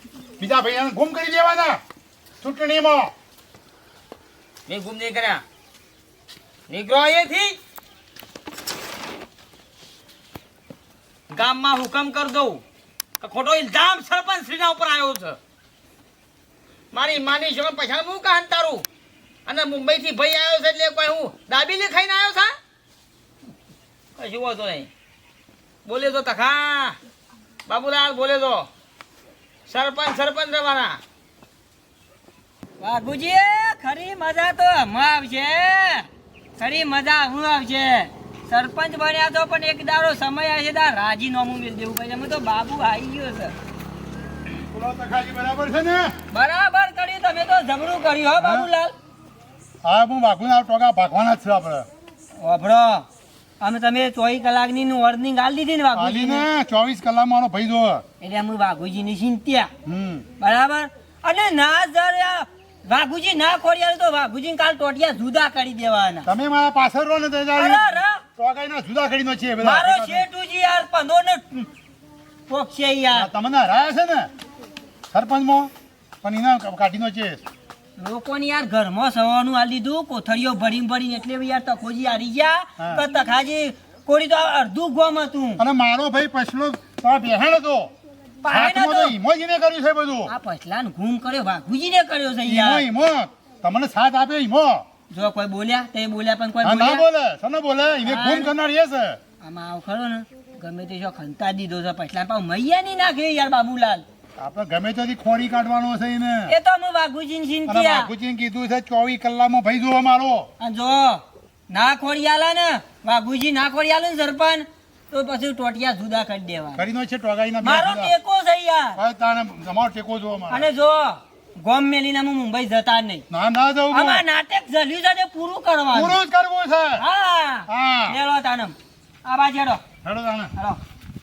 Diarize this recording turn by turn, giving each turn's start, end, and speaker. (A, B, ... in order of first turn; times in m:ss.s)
0:00.4-0:01.8 A
0:02.4-0:03.1 A
0:04.7-0:05.4 B
0:06.7-0:07.6 B
0:11.3-0:12.6 B
0:13.2-0:15.4 B
0:16.9-0:18.9 B
0:19.5-0:22.5 B
0:24.2-0:24.9 B
0:25.8-0:27.0 B
0:27.7-0:28.7 B
0:29.7-0:31.0 B
0:32.8-0:43.5 C
0:44.5-0:46.1 A
0:46.3-0:48.9 C
0:48.4-0:48.7 A
0:49.8-0:51.9 A
0:52.4-0:53.1 C
0:53.6-0:56.5 C
0:55.9-0:58.0 A
0:58.2-0:59.7 C
0:59.8-1:00.3 A
1:00.4-1:06.3 C
1:06.2-1:10.2 A
1:07.5-1:08.2 C
1:09.6-1:11.7 C
1:12.5-1:13.3 C
1:13.1-1:14.3 A
1:15.1-1:15.7 A
1:16.2-1:17.4 A
1:18.0-1:25.6 C
1:22.8-1:23.0 A
1:25.6-1:27.9 A
1:28.4-1:29.1 C
1:28.5-1:30.3 A
1:30.3-1:32.8 C
1:32.4-1:34.8 A
1:35.1-1:37.0 C
1:36.6-1:39.2 A
1:38.0-1:38.5 C
1:39.4-1:44.0 C
1:44.4-1:46.5 A
1:46.5-1:48.1 C
1:47.7-1:50.5 A
1:50.6-1:56.8 C
1:56.8-1:58.1 A
1:57.6-1:59.0 C
1:59.0-2:00.7 A
2:00.5-2:03.2 C
2:03.3-2:04.2 A
2:03.9-2:06.2 C
2:05.9-2:07.0 A
2:07.0-2:09.8 C
2:07.7-2:08.2 A
2:10.0-2:10.5 A